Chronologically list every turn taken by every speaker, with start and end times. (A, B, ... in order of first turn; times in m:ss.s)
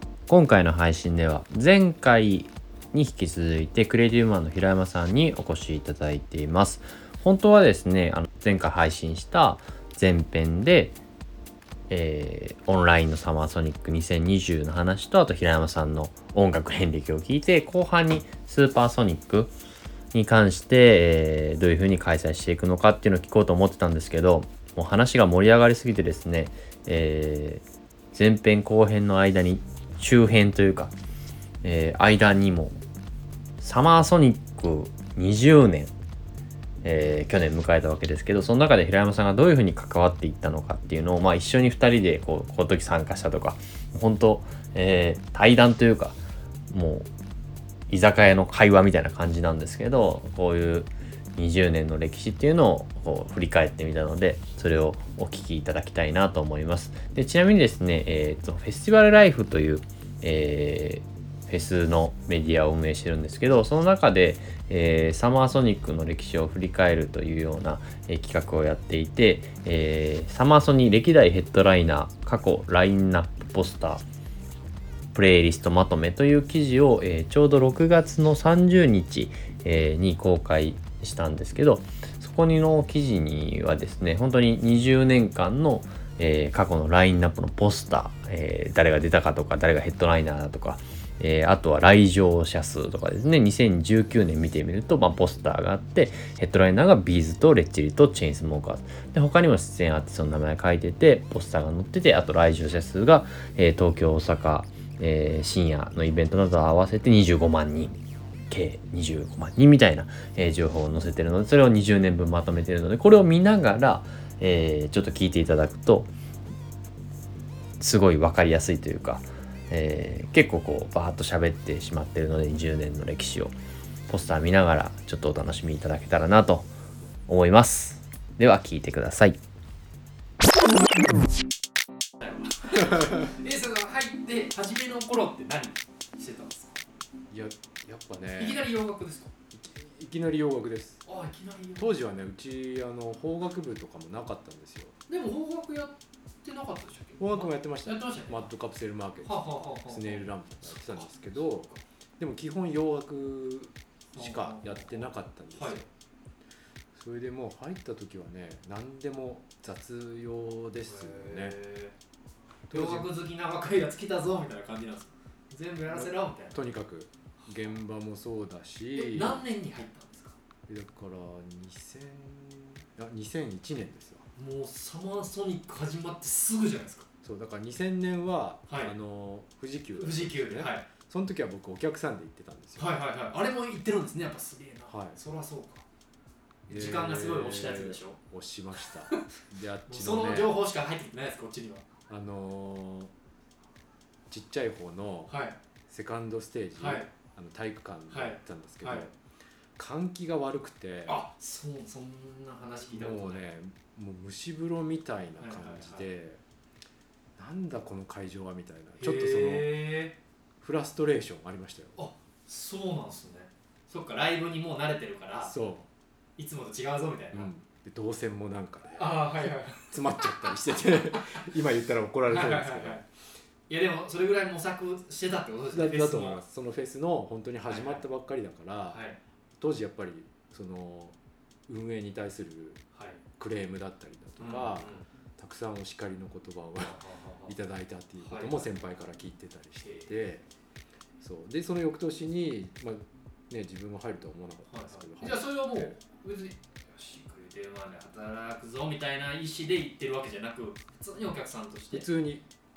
0:00.3-0:11.0 A
0:11.9-0:19.5 A
0:20.1-0:30.9 A
0:31.6-0:32.8 A
0:33.6-0:35.9 A
0:36.8-0:47.1 A
0:47.9-1:14.0 A
1:15.1-1:48.0 A
1:48.5-1:56.1 A
1:57.8-2:03.6 A
2:04.1-2:06.7 A
2:07.3-2:09.4 A
2:12.2-2:16.7 B
2:17.3-2:18.7 C
2:18.4-2:19.3 B
2:19.5-2:21.0 C
2:21.0-2:21.9 B
2:21.8-2:24.9 C
2:25.1-2:28.5 B
2:27.2-2:35.9 C
2:29.2-2:31.8 B
2:34.1-2:35.8 B
2:36.9-2:41.6 C
2:40.8-2:41.9 B
2:42.7-2:43.1 C
2:42.7-2:46.6 B
2:45.9-2:49.4 C
2:48.9-2:50.4 B
2:50.7-2:54.3 C
2:54.4-2:57.1 B
2:57.2-3:02.9 C
2:58.7-2:58.9 B
3:00.0-3:00.9 B
3:02.8-3:05.8 B
3:04.9-3:05.2 C
3:06.7-3:10.6 C
3:06.7-3:08.2 B
3:09.9-3:11.8 B
3:12.1-3:13.1 C
3:14.3-3:15.4 C
3:15.3-3:15.6 B
3:15.9-3:19.2 C
3:16.8-3:17.1 B
3:18.1-3:19.1 B
3:19.8-3:21.2 C
3:21.1-3:23.5 B
3:22.9-3:26.4 C
3:25.4-3:26.1 B
3:27.4-3:29.9 C
3:29.0-3:30.2 B
3:30.6-3:32.0 C
3:32.0-3:35.6 B
3:35.4-3:35.9 C
3:36.4-3:37.5 B
3:37.3-3:43.0 C
3:39.0-3:39.9 B
3:41.1-3:41.4 B
3:42.2-3:43.1 B
3:43.7-3:46.4 B
3:45.7-3:49.0 C
3:47.7-3:48.0 B
3:48.9-3:49.2 B
3:49.6-3:51.2 C
3:51.7-3:52.8 C
3:52.9-3:53.2 B
3:53.4-4:00.5 C
3:54.4-3:55.1 B
3:56.8-3:57.5 B
3:58.2-3:58.7 B
3:59.8-4:00.1 B
4:01.2-4:05.9 C
4:04.7-4:12.1 B
4:11.9-4:12.4 C